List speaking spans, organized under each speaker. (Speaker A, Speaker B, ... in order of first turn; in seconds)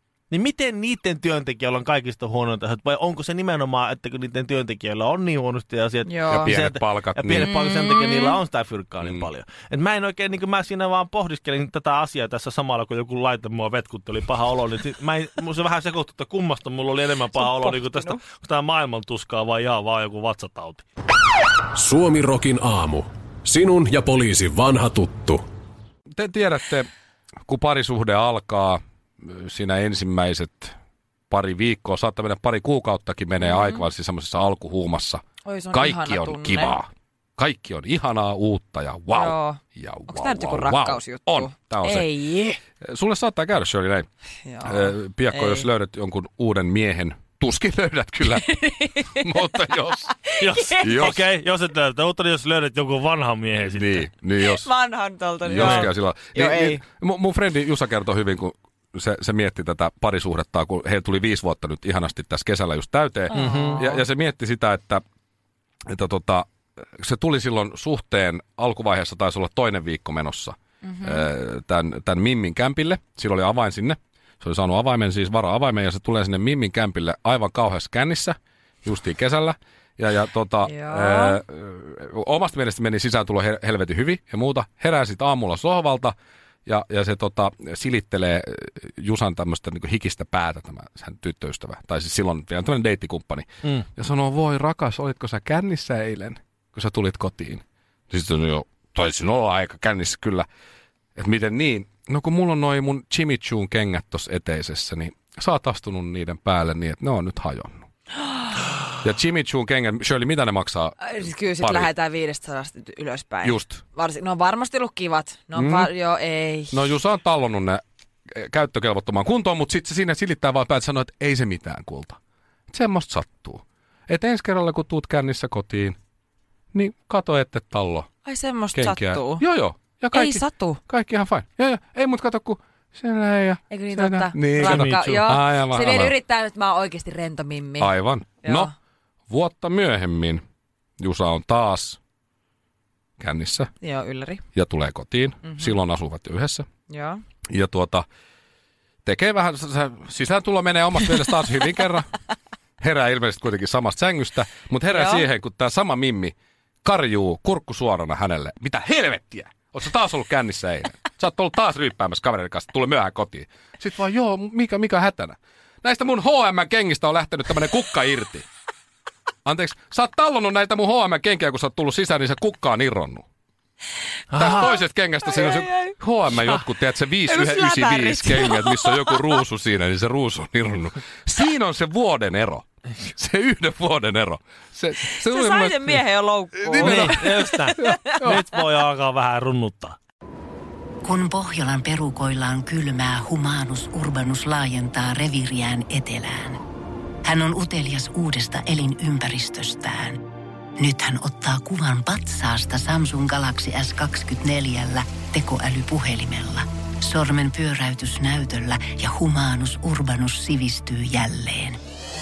Speaker A: 0.3-20.9, 50.4-54.1, 55.6-55.9, 63.3-63.9, 174.3-174.7, 186.7-190.0
Speaker B: 6.0-6.5, 7.3-8.4, 17.3-18.2, 33.4-33.9, 35.5-36.8, 39.1-42.6, 44.5-45.7, 48.3-50.9, 54.4-56.8, 63.3-64.0, 70.8-71.3, 80.6-81.4, 111.0-116.9, 128.2-129.4, 130.1-130.8, 133.7-138.7, 143.8-144.4, 145.4-145.8, 146.9-147.2, 154.9-155.2, 175.2-175.9, 177.2-179.4, 185.0-188.6
Speaker C: 6.3-7.6, 26.2-26.9, 27.5-30.7, 31.3-42.1, 42.8-44.1, 44.6-50.1, 50.8-51.2, 53.6-54.7, 55.4-65.0, 65.9-66.5, 67.0-86.2, 86.7-100.5, 101.2-107.9, 109.0-111.0, 111.6-111.9, 113.4-113.8, 115.5-115.9, 116.7-122.2, 122.7-126.0, 126.7-128.1, 128.7-136.2, 137.8-138.7, 139.3-140.4, 141.0-142.0, 143.2-143.7, 144.6-146.7, 147.5-148.0, 149.1-152.1, 152.8-168.5, 169.4-173.2, 174.3-186.0, 186.6-187.3, 187.8-188.4
Speaker D: 21.7-25.4
Speaker E: 191.0-196.6, 197.2-200.2, 200.8-211.8